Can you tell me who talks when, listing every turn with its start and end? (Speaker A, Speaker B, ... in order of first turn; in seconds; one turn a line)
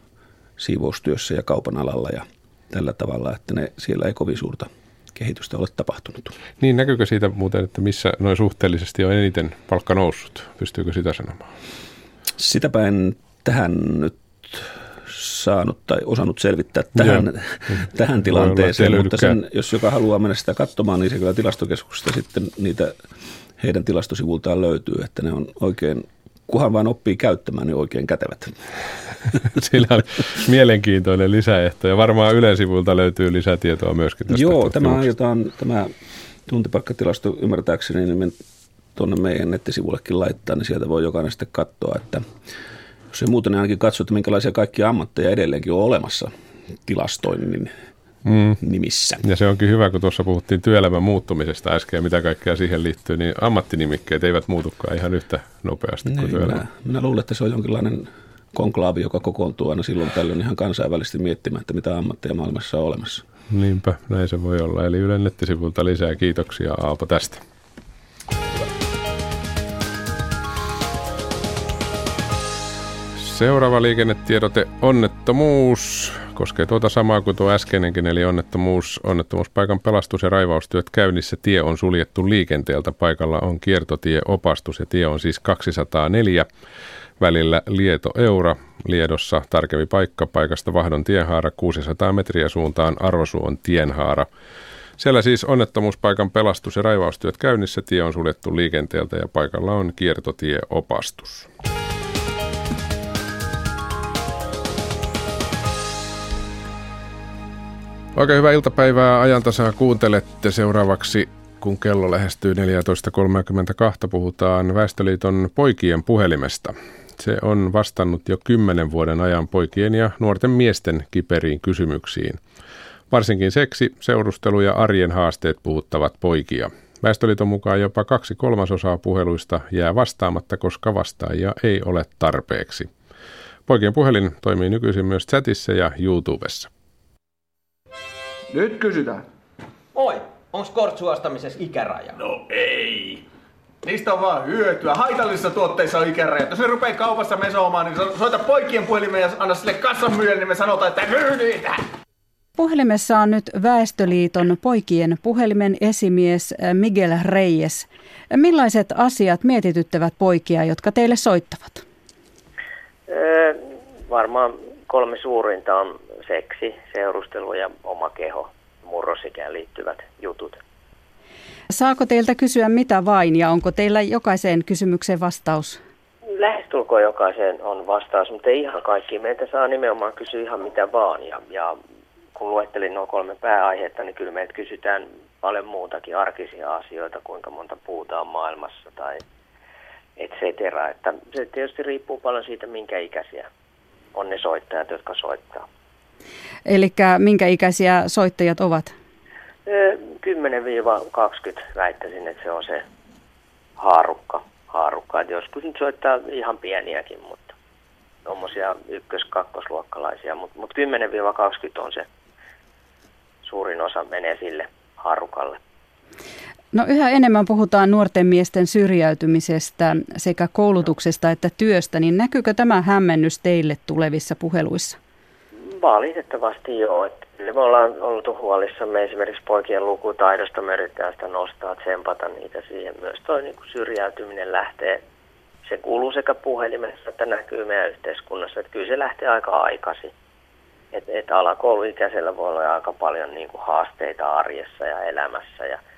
Speaker A: 0.6-6.3
Speaker B: 6.6-11.5
Speaker A: 12.3-22.9
Speaker B: 16.9-19.4
Speaker A: 23.6-28.6
Speaker B: 29.6-35.1
Speaker A: 34.3-35.9
Speaker A: 36.5-38.4
Speaker A: 39.0-42.2
Speaker A: 43.1-46.3
Speaker A: 46.8-47.7
Speaker B: 48.2-48.6
Speaker A: 48.6-49.2
Speaker B: 49.2-56.6
Speaker A: 56.0-63.2
Speaker B: 63.5-67.4
Speaker B: 73.1-86.5
Speaker B: 87.2-94.3
Speaker B: 95.0-101.5
Speaker B: 108.1-122.4
Speaker B: 123.1-132.9
Speaker B: 133.7-136.7
Speaker C: 138.5-139.2
Speaker C: 139.9-143.2
Speaker C: 143.8-151.8
Speaker D: 152.6-161.8
Speaker E: 163.1-170.6
Speaker D: 171.7-175.8
Speaker E: 176.4-181.8
Speaker E: 182.3-189.2
Speaker E: 190.2-193.5
Speaker E: 194.1-195.6
Speaker D: 196.7-198.9
Speaker E: 199.7-202.8
Speaker E: 203.8-207.5
Speaker E: 208.2-212.1
Speaker E: 213.4-215.6
Speaker D: 216.7-225.0
Speaker E: 225.7-235.0
Speaker E: 235.7-240.1
Speaker E: 240.9-245.8